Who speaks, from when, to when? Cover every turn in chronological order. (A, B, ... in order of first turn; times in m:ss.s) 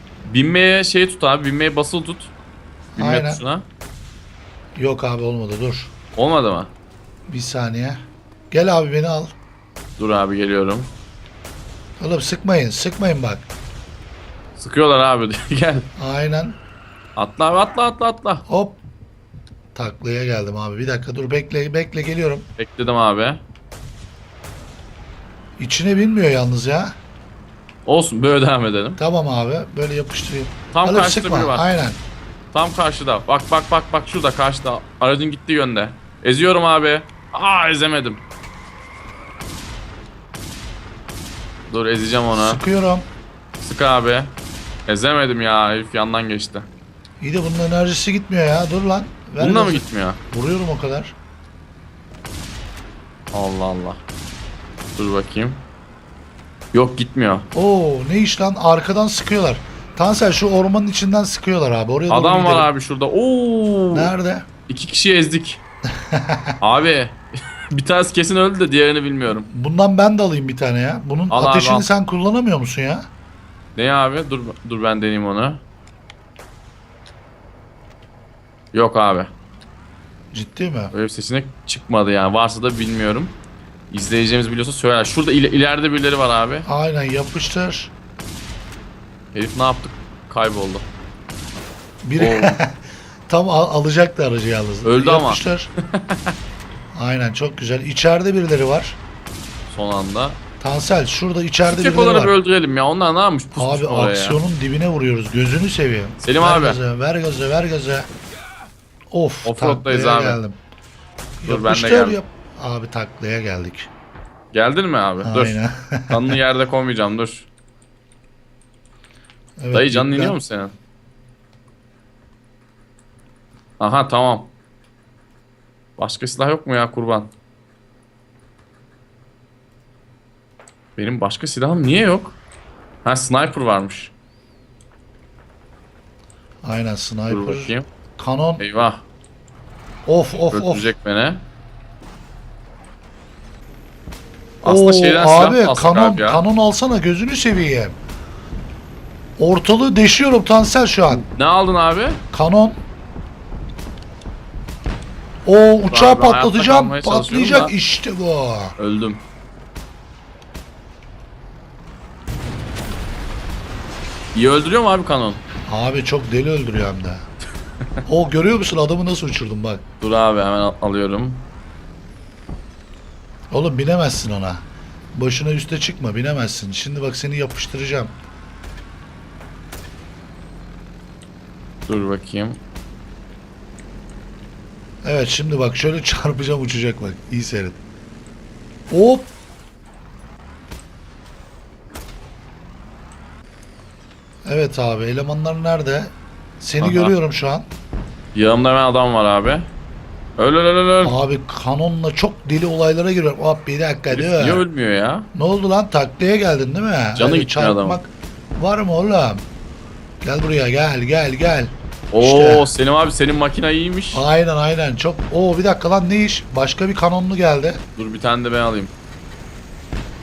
0:00.2-0:02.3 A
0:03.0-0:03.4 B
0:03.0-0:03.7 A
0:04.8-0:05.9 B
0:06.2-0:06.7 A
0:07.3-0:09.3 B
0:10.0-0:10.9 A
0:12.0-0:13.5 B
0:14.6-0:15.9 A
0:16.0-0:16.6 B
0:17.2-0:18.4 A
0:18.5-0:18.8 B
0:19.8-0:22.5 B
0:22.6-0:23.4 A
0:25.6-0:26.9 B
0:27.9-0:29.0 A
0:29.0-0:32.0 B
0:30.7-0:31.7 A
0:32.5-0:38.2 A
0:41.7-0:42.6 A
0:42.3-0:43.1 B
0:43.6-0:44.3 A
0:44.9-0:46.7 A
0:47.2-0:51.2 B
0:49.4-0:50.2 A
0:53.3-0:54.0 A
0:55.0-0:55.6 A
0:56.7-0:57.5 A
0:57.5-1:02.7 B
1:02.1-1:04.1 A
1:03.9-1:04.5 B
1:04.7-1:05.6 A
1:06.1-1:06.5 B
1:06.6-1:07.2 A
1:07.7-1:09.5 A
1:09.5-1:13.1 B
1:11.3-1:11.9 A
1:13.8-1:15.6 A
1:18.7-1:19.3 A
1:20.3-1:20.9 B
1:20.9-1:23.4 A
1:23.9-1:26.7 A
1:26.6-1:27.9 B
1:29.3-1:30.9 A
1:32.0-1:32.8 B
1:32.2-1:32.6 A
1:33.3-1:35.7 B
1:34.8-1:35.4 A
1:35.9-1:36.3 A
1:36.9-1:39.0 B
1:39.7-1:40.4 A
1:40.6-1:42.4 B
1:41.6-1:44.4 A
1:43.6-1:48.1 B
1:46.2-1:46.8 A
1:49.1-1:50.6 B
1:49.4-1:50.4 A
1:51.4-1:53.9 B
1:51.5-1:52.2 A
1:54.5-1:57.5 A
1:55.2-1:56.2 B
1:59.6-2:00.4 B
1:59.7-2:00.8 A
2:03.8-2:04.5 A
2:06.0-2:07.3 A
2:11.0-2:12.4 A
2:13.0-2:14.1 A
2:16.6-2:18.6 B
2:17.3-2:17.9 A
2:18.6-2:19.0 A
2:20.1-2:20.9 B
2:20.5-2:21.4 A
2:24.6-2:28.0 B
2:24.6-2:26.4 A
2:29.4-2:31.2 B
2:31.1-2:32.2 A
2:32.3-2:32.8 B
2:35.4-2:38.8 B
2:35.9-2:37.7 A
2:38.8-2:39.2 A
2:44.3-2:45.4 A
2:45.7-2:47.3 B
2:48.1-2:49.8 B
2:50.0-2:51.5 A
2:53.5-2:58.2 B
3:01.9-3:02.6 A
3:05.0-3:07.8 B
3:08.9-3:09.3 B
3:14.5-3:17.7 B
3:16.8-3:17.1 A
3:18.3-3:19.7 A
3:20.4-3:21.2 A
3:21.0-3:24.6 B
3:24.1-3:25.3 A
3:25.3-3:29.5 B
3:27.2-3:28.0 A
3:30.2-3:32.7 B
3:32.1-3:34.2 A
3:34.1-3:37.8 B
3:38.0-3:38.9 A